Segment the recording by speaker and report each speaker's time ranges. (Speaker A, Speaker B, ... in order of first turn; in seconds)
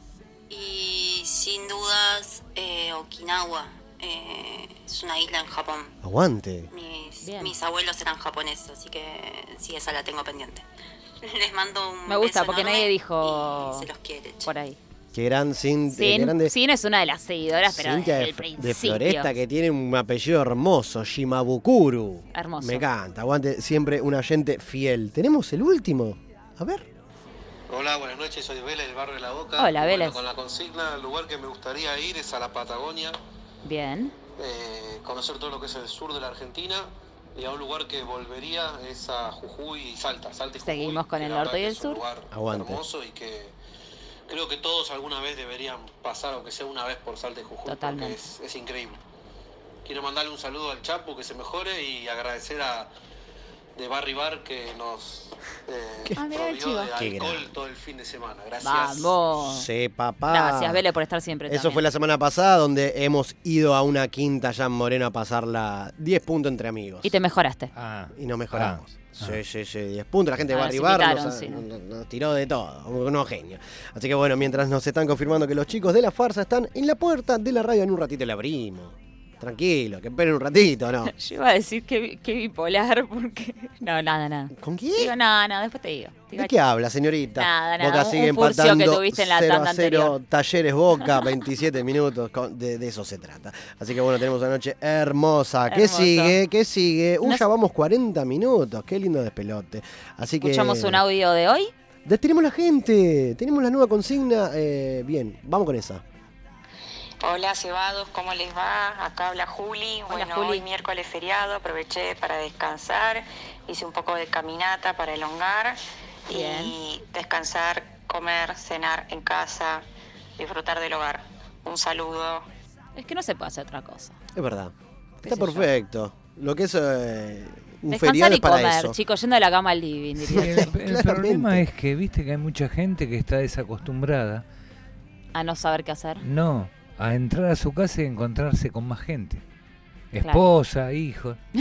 Speaker A: 0.5-6.0, 6.7-10.6, 11.2-14.5
Speaker B: 6.0-6.7, 15.1-16.5, 17.6-26.9, 42.3-42.8, 56.9-57.5, 59.4-60.8, 61.5-67.2, 68.1-81.1, 84.5-85.1, 86.3-101.0, 102.0-106.0, 124.3-129.0, 130.3-131.6
Speaker C: 7.2-7.5, 12.1-13.9, 14.4-14.8, 15.9-19.3, 22.3-22.8, 29.6-30.2, 33.6-34.1, 40.6-42.0, 47.6-48.2, 56.1-56.9, 58.6-59.7, 60.3-61.8, 67.0-67.7, 70.5-71.6, 81.1-86.5, 87.3-90.1, 95.7-96.3, 100.4-101.7, 110.1-110.6, 116.3-116.7, 123.0-124.2, 125.2-125.7, 127.9-130.7, 135.3-136.2
Speaker D: 27.7-33.1, 34.4-43.5, 44.3-49.0, 49.8-52.9, 53.7-59.1
Speaker E: 67.7-69.4, 130.3-134.4, 136.2-139.4, 140.1-141.4
Speaker F: 107.2-119.8, 120.4-122.4